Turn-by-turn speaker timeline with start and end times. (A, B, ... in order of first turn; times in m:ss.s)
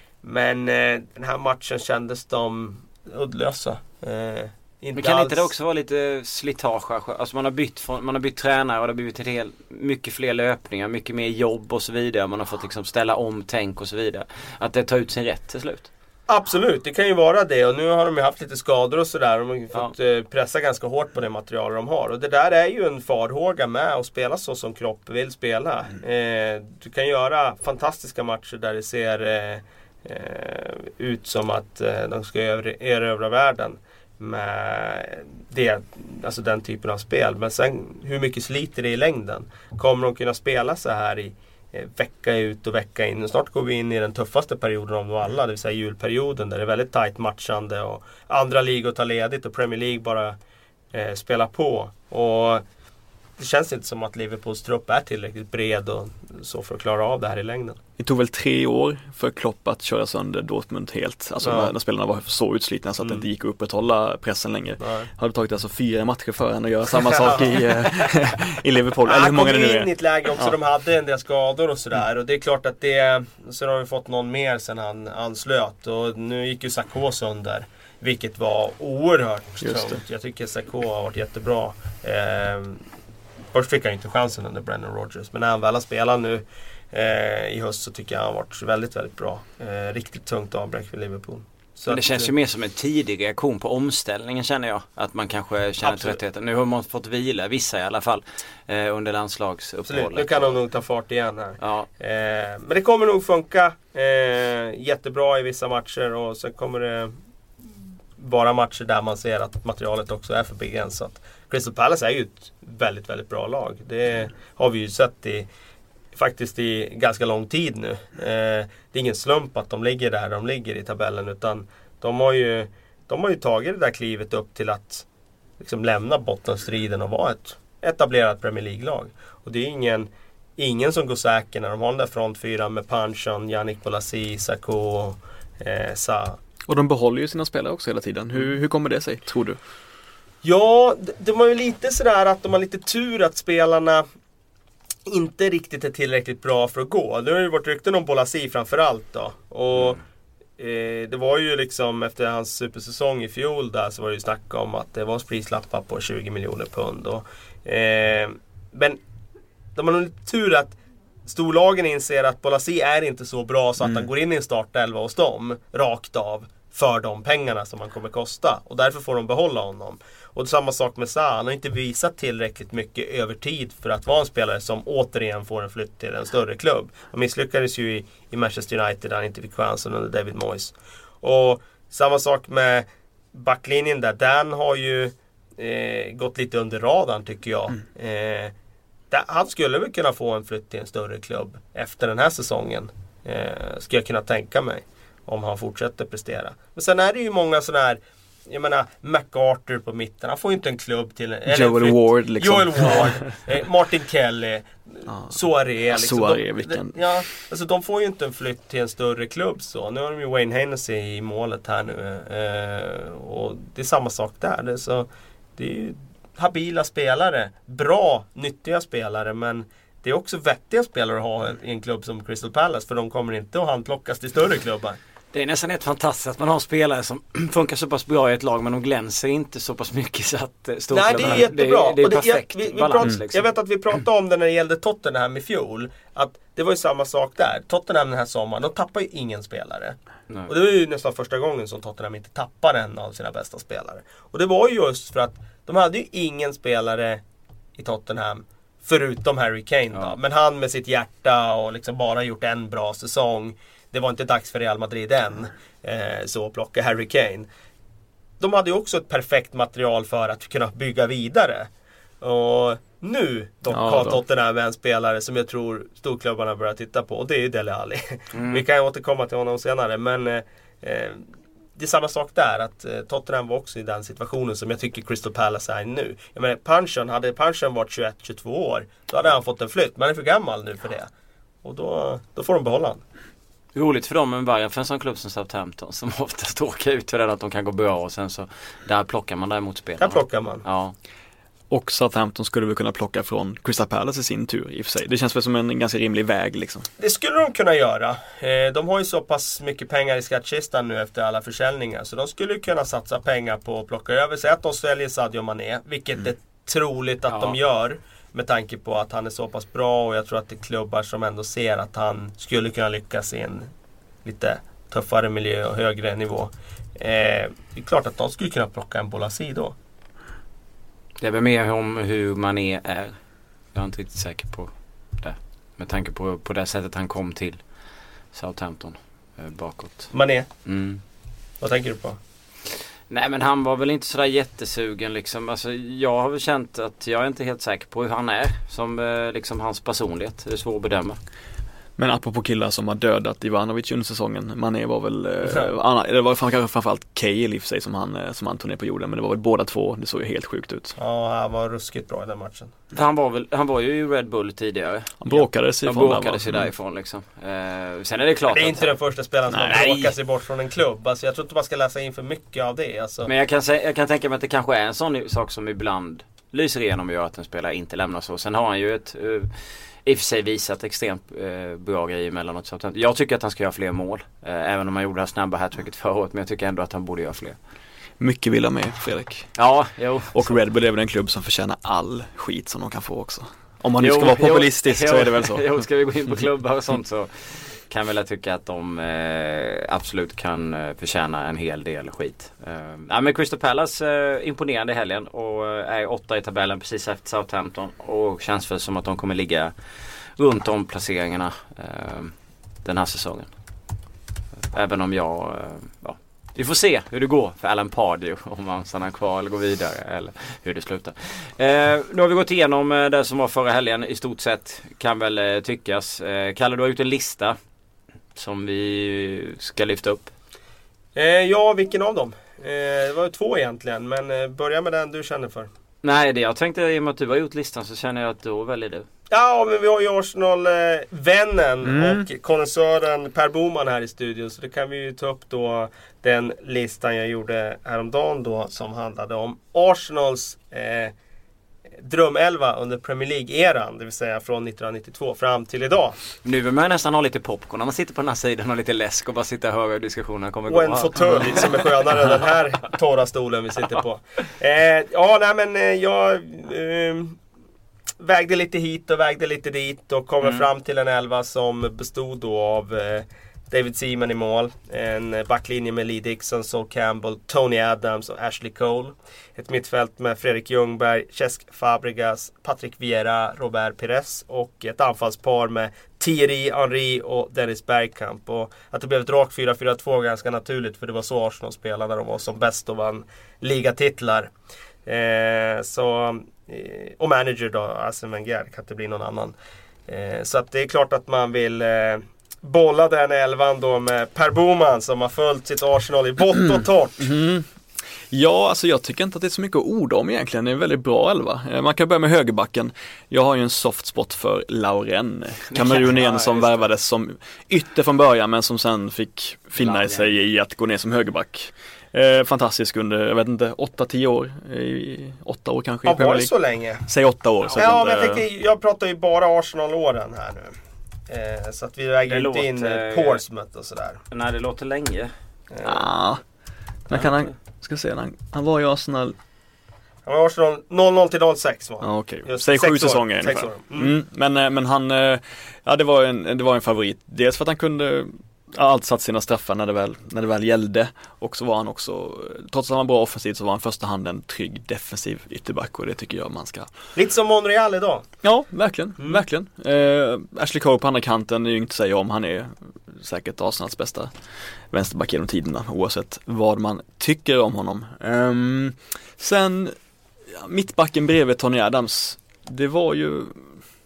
0:00.2-0:05.5 A
0:05.0-0:15.9 B
0:16.3-0:50.4 A
0:50.9-0:52.6 A
0:53.4-0:57.8 A
0:58.0-1:10.5 C
1:01.4-1:01.7 A
1:04.8-1:05.1 A
1:07.1-1:07.7 A
1:09.0-1:22.8 A
1:19.6-1:20.0 C
1:23.5-1:32.3 A
1:31.9-1:40.4 B
1:35.8-1:36.2 A
1:39.9-1:47.1 A
1:41.6-1:41.9 B
1:48.2-1:55.5 A
1:56.1-2:05.0 A
2:05.6-2:16.4 A
2:16.7-2:19.6 C
2:20.4-2:24.0 A
2:25.1-2:30.0 A
2:30.6-2:39.0 A
2:39.8-2:40.7 A
2:41.3-3:08.5 A
2:43.8-2:44.1 C
3:09.1-3:45.0 A
3:21.5-3:23.2 C
3:25.1-3:25.4 C
3:25.9-3:27.0 C
3:45.3-3:53.5 B
3:50.9-4:00.0 A
4:00.5-4:07.2 A
4:07.7-4:17.5 A
4:18.4-4:21.7 A
4:22.2-4:31.2 A
4:23.7-4:24.2 C
4:28.3-4:28.6 B
4:31.8-4:41.1 A
4:41.6-4:43.0 A
4:43.7-4:50.9 B
4:50.0-4:50.6 A
4:51.7-4:56.9 C
4:57.0-5:13.7 A
5:07.3-5:07.6 B
5:14.2-5:19.7 A
5:21.2-5:23.2 B
5:23.7-5:27.7 B
5:28.3-5:30.1 B
5:30.1-5:30.5 A
5:30.6-5:31.0 B
5:31.6-5:32.2 A
5:33.1-5:41.2 B
5:42.0-5:51.0 C
5:51.0-5:52.7 A
5:52.9-5:58.9 B
5:55.2-5:56.7 C
5:58.5-6:03.3 A
5:59.5-5:59.8 C
5:59.7-6:00.1 B
6:03.2-6:17.6 B
6:18.2-6:19.6 C
6:19.5-6:20.6 B
6:20.3-6:25.8 C
6:24.0-6:43.5 B
6:44.7-6:57.6 B
6:58.3-7:00.3 B
7:01.1-7:05.7 A
7:06.0-7:09.0 B
7:09.3-7:21.1 A
7:11.8-7:12.3 C
7:22.0-7:26.2 A
7:26.4-7:31.6 B
7:30.7-7:37.4 A
7:38.2-8:04.5 A
8:05.0-8:09.5 A
8:10.1-8:17.3 A
8:17.2-8:17.7 C
8:18.3-8:36.5 C
8:25.7-8:26.8 B
8:29.8-8:30.3 B
8:36.0-8:37.0 A
8:37.0-8:38.4 C
8:37.7-8:40.7 A
8:41.3-8:44.2 A
8:42.3-8:43.4 B
8:44.3-8:45.3 B
8:45.7-8:46.0 A
8:45.8-8:46.4 C
8:47.1-8:49.4 C
8:50.2-8:54.1 A
8:52.0-9:06.9 C
9:07.1-9:08.2 A
9:08.4-9:14.3 C
9:14.9-9:19.9 C
9:20.5-9:23.8 C